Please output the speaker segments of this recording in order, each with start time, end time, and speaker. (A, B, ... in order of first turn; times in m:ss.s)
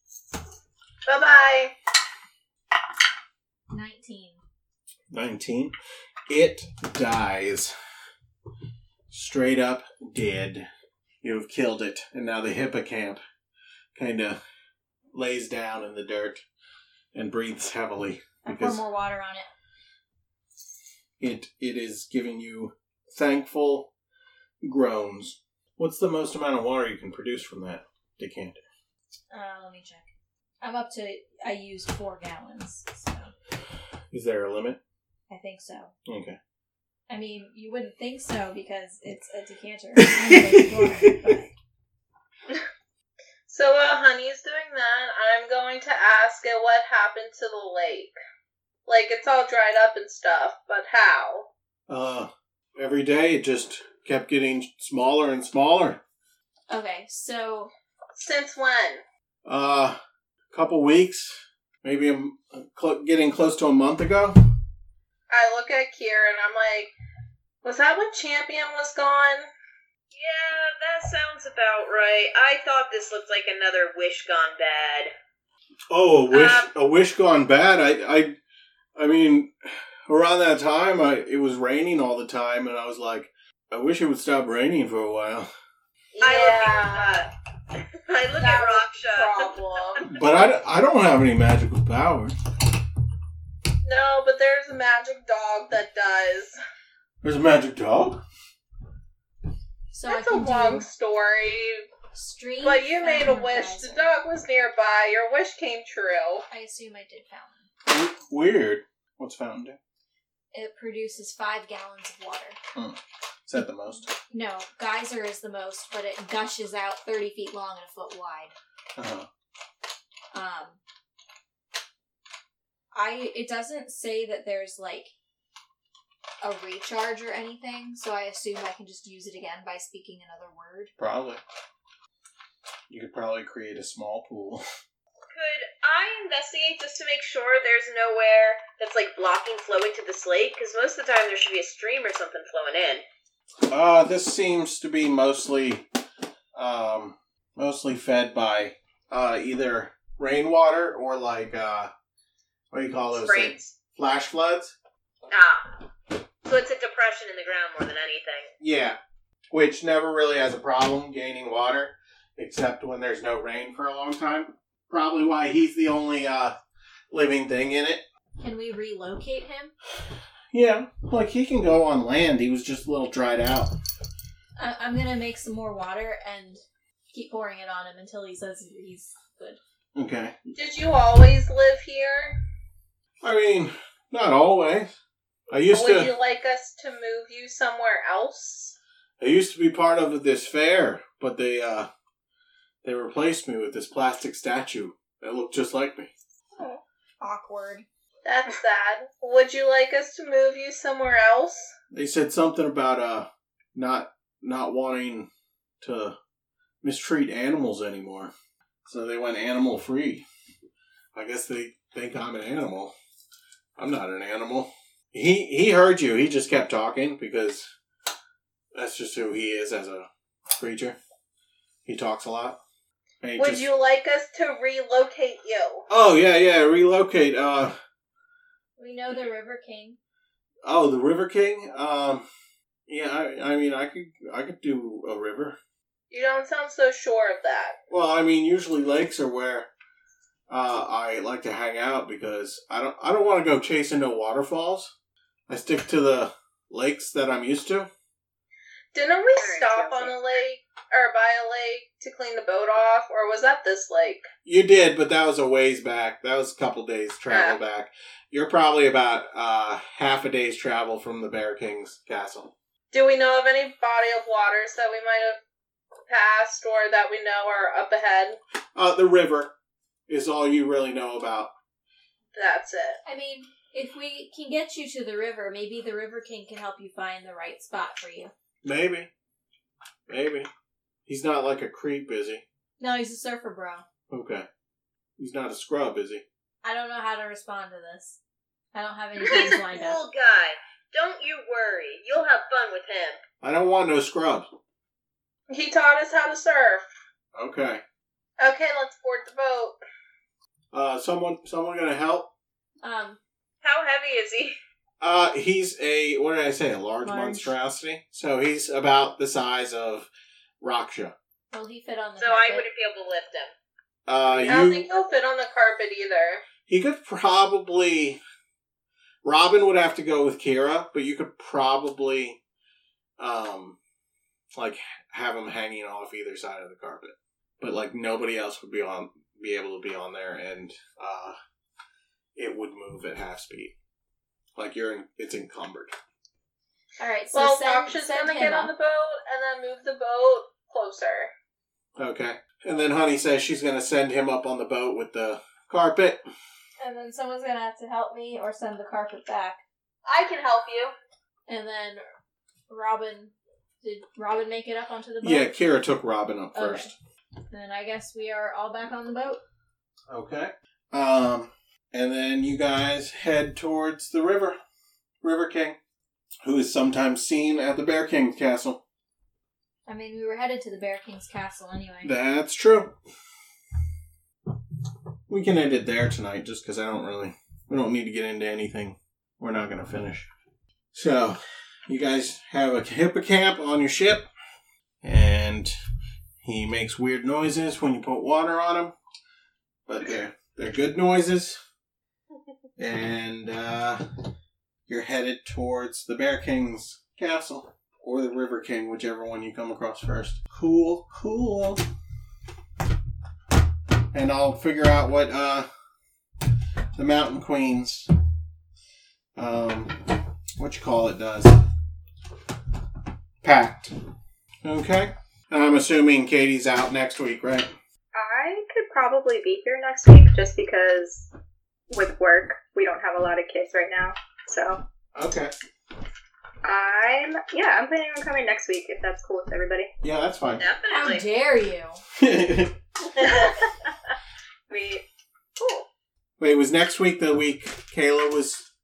0:01.0-0:01.7 A
0:03.7-0:04.4 B
0:05.1-0:05.7 C
0:06.3-0:07.7 C
0:09.1-0:10.7 C
0:11.2-0:13.2 C
0:13.9-0:14.4 C
0:15.1-0:16.4 C
0:17.1-0:18.8 C
0:18.4-0:19.5 B
0:21.2-0:23.9 C
0:24.6-0:28.6 C
0:29.3-0:30.1 B
0:30.6-0:33.3 B
0:34.1-0:34.8 C
0:35.3-0:35.9 B
0:36.0-0:36.4 C
0:37.1-0:41.5 B
0:40.0-0:41.1 C
0:43.5-0:48.1 A
0:48.8-0:51.5 A
0:51.9-0:56.0 C
0:56.7-0:57.7 B
0:58.1-0:59.0 A
0:59.4-1:00.0 C
1:00.5-1:04.4 C
1:05.3-1:06.9 A
1:07.6-1:09.5 A
1:10.1-1:15.1 D
1:15.9-1:18.4 C
1:16.3-1:16.7 D
1:19.0-1:25.5 C
1:26.1-1:27.3 A
1:26.2-1:27.3 D
1:28.0-1:29.6 D
1:28.4-1:30.1 A
1:30.1-1:32.3 C
1:33.8-1:36.6 A
1:37.2-1:38.2 C
1:39.9-1:40.9 B
1:40.1-1:41.9 A
1:42.1-1:44.1 B
1:42.6-1:46.4 A
1:46.5-1:47.7 B
1:47.8-1:49.8 C
1:50.5-1:52.6 B
1:52.7-1:54.1 C
1:54.3-1:58.5 B
1:59.0-1:59.3 C
2:00.3-2:00.8 B
2:02.9-2:05.1 B
2:06.4-2:10.9 B
2:11.0-2:11.4 C
2:12.9-2:14.6 C
2:15.3-2:23.0 D
2:23.7-2:25.8 C
2:26.5-2:31.9 C
2:32.7-2:34.8 C
2:33.1-2:33.8 D
2:35.3-2:35.7 D
2:36.4-2:38.5 D
2:38.6-2:39.0 C
2:39.5-2:46.6 C
2:47.1-2:48.0 C
2:48.4-2:49.7 B
2:50.5-2:53.7 C
2:54.6-2:59.6 B
2:59.9-3:00.5 C
3:00.5-3:02.4 A
3:03.2-3:05.0 C
3:05.5-3:06.1 C
3:05.7-3:08.7 A
3:09.2-3:11.9 C
3:12.8-3:16.1 C
3:17.2-3:17.8 B
3:18.2-3:21.7 A
3:21.9-3:25.3 C
3:25.8-3:26.2 C
3:26.8-3:28.3 C
3:28.8-3:30.2 C
3:31.1-3:32.9 C
3:33.8-3:37.7 C
3:38.7-3:41.0 C
3:41.8-3:42.6 C
3:43.2-3:43.7 C
3:43.4-3:45.8 A
3:45.9-3:47.7 C
3:48.8-3:50.0 B
3:50.6-3:52.2 C
3:52.9-3:55.6 C
3:56.1-3:57.8 A
3:57.9-3:59.7 C
4:00.5-4:04.9 C
4:05.5-4:07.9 C
4:08.9-4:14.3 A
4:09.4-4:10.1 E
4:14.4-4:22.5 C
4:17.3-4:17.6 A
4:22.9-4:25.4 A
4:26.1-4:28.4 A
4:28.7-4:29.5 C
4:30.1-4:31.5 C
4:32.3-4:33.0 A
4:33.0-4:38.3 B
4:38.6-4:39.1 C
4:40.1-4:40.5 C
4:41.1-4:42.4 C
4:42.8-4:43.8 B
4:44.1-4:44.4 C
4:45.2-4:46.2 C
4:46.6-4:48.2 B
4:48.7-4:50.0 B
4:49.2-4:53.2 D
4:53.4-4:54.5 C
4:55.5-4:56.8 A
4:57.3-4:57.8 C
4:58.4-4:59.8 A
5:00.7-5:02.3 C
5:02.8-5:03.2 B
5:03.6-5:04.6 D
5:05.0-5:10.1 C
5:07.0-5:07.5 B
5:10.6-5:11.1 C
5:11.5-5:12.6 B
5:12.2-5:13.5 D
5:14.1-5:14.9 C
5:14.4-5:16.4 A
5:16.7-5:18.2 C
5:19.2-5:22.4 C
5:23.2-5:23.8 C
5:24.6-5:31.4 C
5:32.4-5:33.7 C
5:34.6-5:35.9 C
5:37.0-5:38.7 B
5:37.3-5:41.3 A
5:42.0-5:46.2 C
5:46.8-5:49.6 B
5:50.0-5:50.9 A
5:51.5-5:52.0 B
5:52.7-5:55.6 B
5:55.2-5:56.9 C
5:56.5-5:56.9 B
5:57.5-5:59.4 B
6:00.1-6:04.6 C
6:05.2-6:05.8 C
6:06.4-6:08.8 C
6:09.9-6:12.1 B
6:12.0-6:12.9 C
6:15.3-6:20.3 C
6:20.9-6:24.2 C
6:25.0-6:25.7 C
6:26.4-6:28.9 C
6:29.9-6:31.6 C
6:32.8-6:34.0 C
6:34.9-6:41.8 C
6:44.1-6:45.7 C
6:46.9-6:48.1 C
6:49.4-6:51.6 C
6:53.4-6:54.0 C
6:54.6-6:57.7 C
6:58.1-7:01.3 E
7:01.9-7:04.8 E
7:05.1-7:05.5 C
7:06.6-7:09.9 E
7:10.0-7:10.6 C
7:10.6-7:11.2 D
7:10.9-7:12.0 B
7:12.2-7:12.8 C
7:13.2-7:13.5 E
7:16.4-7:18.7 C